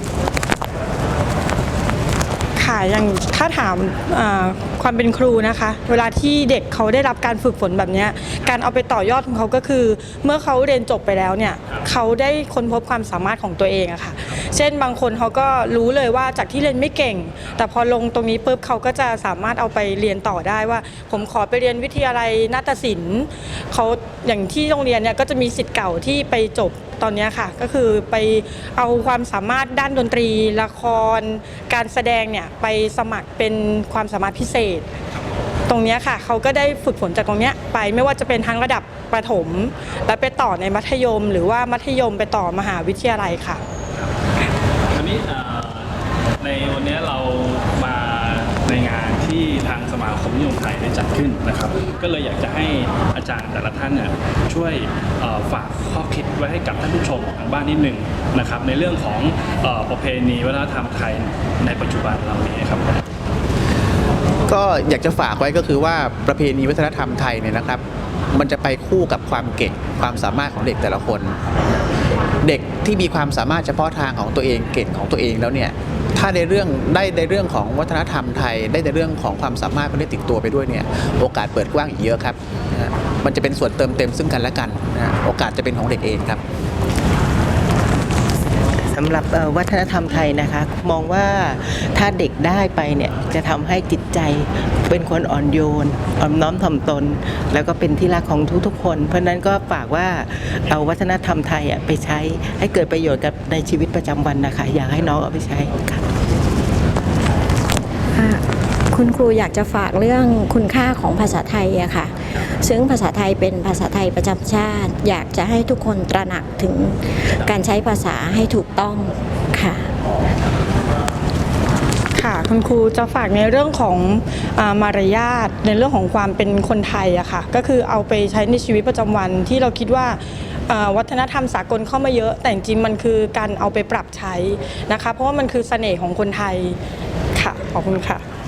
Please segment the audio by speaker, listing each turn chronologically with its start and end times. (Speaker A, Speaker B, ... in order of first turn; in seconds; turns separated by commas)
Speaker A: 2.6-34.9, Speaker B: 35.1-35.4, Speaker A: 35.7-43.6, Speaker B: 44.9-63.0, Speaker C: 64.5-71.3, Speaker C: 72.4-86.4, Speaker D: 88.9-106.0, Speaker E: 108.1-119.9, Speaker A: 122.1-136.8, Speaker A: 137.3-138.2